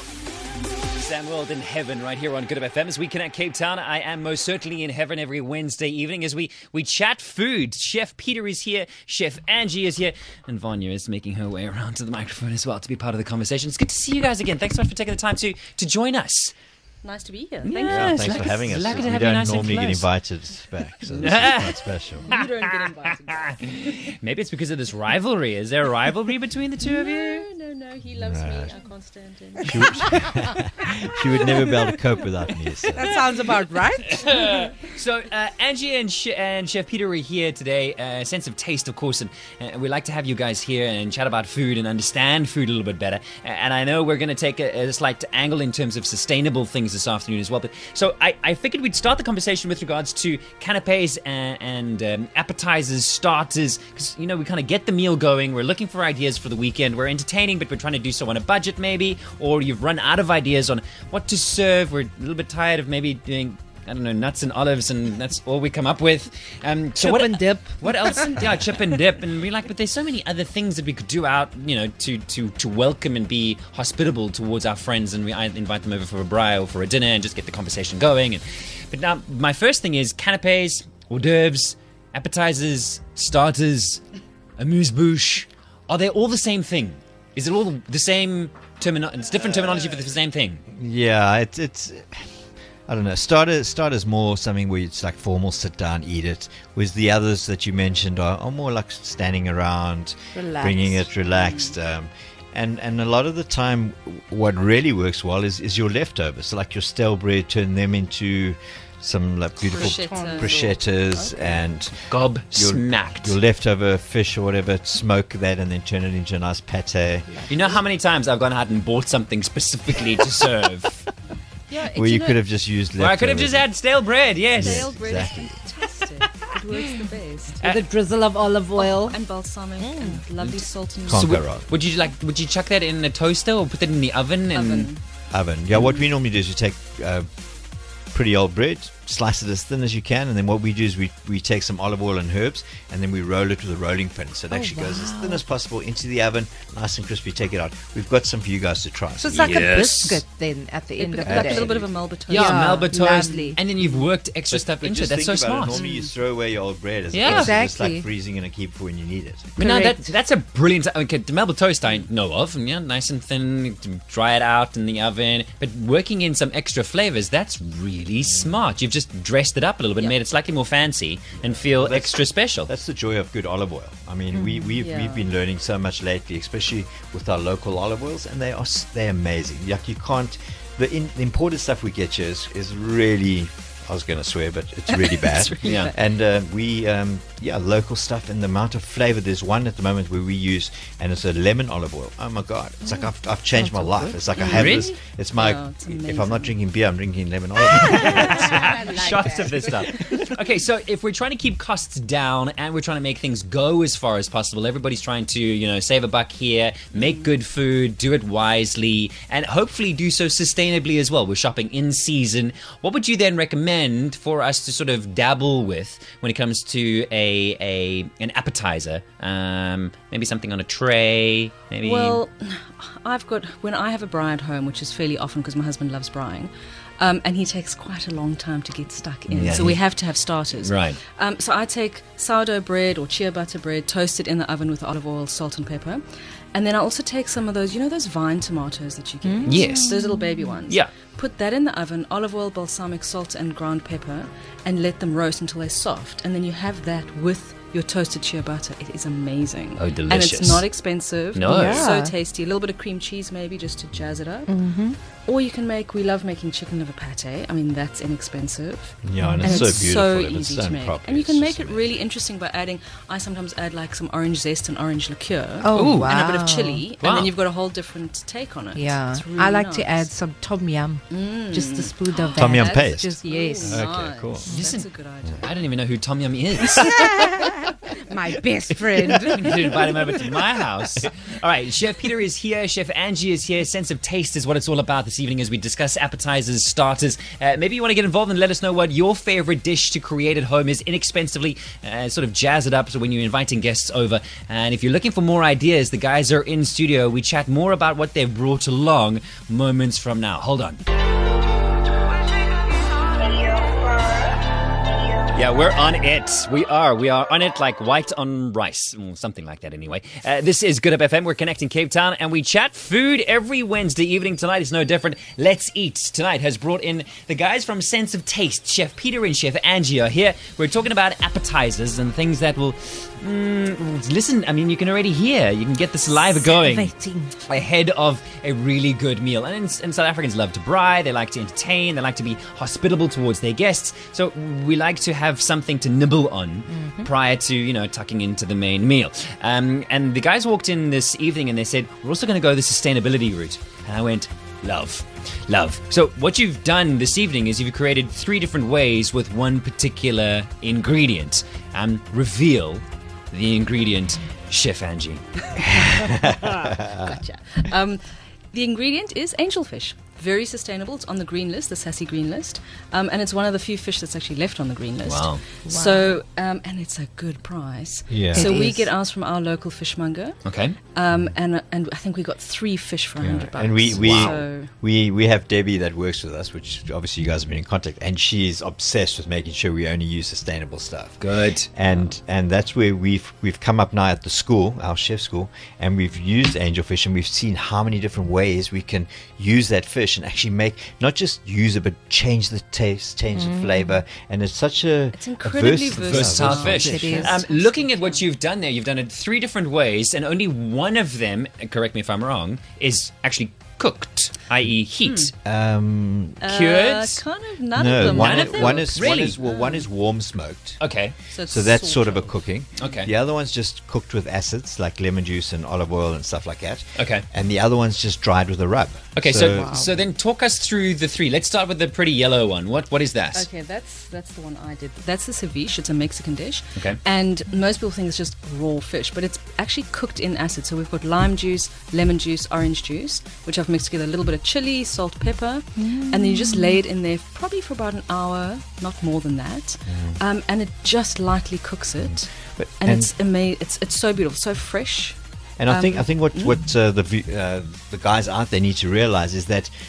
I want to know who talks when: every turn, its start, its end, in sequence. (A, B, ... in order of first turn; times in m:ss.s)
0:01.0-0:16.5 A
0:17.0-0:18.5 B
0:17.6-0:20.1 A
0:17.8-0:22.3 C
0:21.0-0:27.4 A
0:22.2-0:23.6 B
0:26.8-0:30.3 B
0:28.1-0:28.7 C
0:29.6-0:33.2 C
0:32.9-0:34.4 D
0:34.0-1:24.0 A
1:07.0-1:08.4 D
1:24.6-1:30.6 A
1:30.7-1:32.3 C
1:32.9-1:57.5 C
1:40.3-1:41.0 D
1:41.3-1:41.8 B
1:49.6-1:51.5 D
1:49.7-1:50.6 B
1:52.0-1:53.4 A
1:57.5-2:01.1 A
2:01.7-2:02.4 B
2:01.9-2:03.7 C
2:03.0-2:04.9 A
2:04.6-2:05.6 C
2:04.6-2:07.6 B
2:07.6-2:07.9 A
2:07.6-2:09.2 D
2:08.8-2:11.4 B
2:09.8-2:10.2 D
2:10.4-2:14.9 A
2:11.1-2:11.6 C
2:14.5-2:15.0 B
2:15.3-2:17.3 C
2:18.1-2:29.7 C
2:24.5-2:25.4 D
2:29.2-2:31.7 D
2:29.3-2:30.2 A
2:31.0-2:33.5 B
2:31.2-2:32.0 C
2:32.3-2:35.8 A
2:32.3-2:33.6 D
2:34.5-2:39.5 C
2:35.7-2:36.1 B
2:37.1-2:37.6 A
2:37.2-2:38.0 D
2:39.6-2:40.0 D
2:39.6-2:52.7 A
2:51.4-3:18.7 C
2:54.8-2:55.2 B
3:04.9-3:05.9 B
3:05.6-3:05.9 A
3:13.5-3:14.6 D
3:14.4-3:14.9 A
3:15.3-3:16.6 B
3:17.7-3:42.2 A
3:17.7-3:20.1 D
3:41.8-3:56.0 B
3:49.3-3:49.8 A
3:50.6-3:51.0 A
3:56.5-4:14.6 B
3:59.2-4:00.0 D
3:59.4-4:00.0 A
4:09.8-4:10.6 A
4:11.3-4:11.9 A
4:11.4-4:12.1 D
4:14.5-4:15.0 D
4:15.2-4:30.1 B
4:19.0-4:22.0 C
4:19.2-4:19.8 D
4:25.6-4:26.8 D
4:25.7-4:26.2 A
4:27.0-4:27.3 A
4:28.7-4:33.8 D
4:31.1-4:35.6 B
4:32.4-4:34.5 C
4:34.5-4:34.9 A
4:35.4-4:37.0 A
4:36.9-4:39.9 D
4:38.9-4:40.2 C
4:39.1-5:00.8 A
5:05.3-5:26.9 A
5:26.3-5:27.3 D
5:27.4-5:55.7 A
5:36.7-5:37.1 D
5:55.8-5:57.1 C
5:56.7-5:58.0 B
5:58.5-6:10.4 B
6:05.0-6:05.4 A
6:05.7-6:06.1 D
6:08.1-6:08.6 C
6:08.3-6:08.9 D
6:10.4-6:10.8 A
6:10.9-6:14.7 B
6:13.2-6:21.2 C
6:13.9-6:14.4 A
6:21.2-6:21.7 A
6:21.7-6:37.4 C
6:33.4-6:33.9 D
6:35.1-6:38.2 B
6:36.0-6:45.3 A
6:36.8-6:37.4 D
6:45.0-6:45.3 B
6:45.4-6:46.4 C
6:46.4-6:49.8 B
6:46.5-6:47.2 A
6:47.7-6:50.8 C
6:47.9-6:49.4 A
6:50.8-6:51.2 A
6:51.3-6:53.0 B
6:51.5-6:59.8 C
6:52.8-6:53.1 A
6:57.0-6:57.2 A
6:59.2-7:03.5 A
6:59.6-6:59.9 D
7:03.3-7:22.3 B
7:15.8-7:16.7 D
7:19.9-7:20.2 C
7:22.0-7:23.1 C
7:22.8-7:25.2 B
7:25.6-7:29.7 C
7:25.7-7:26.6 B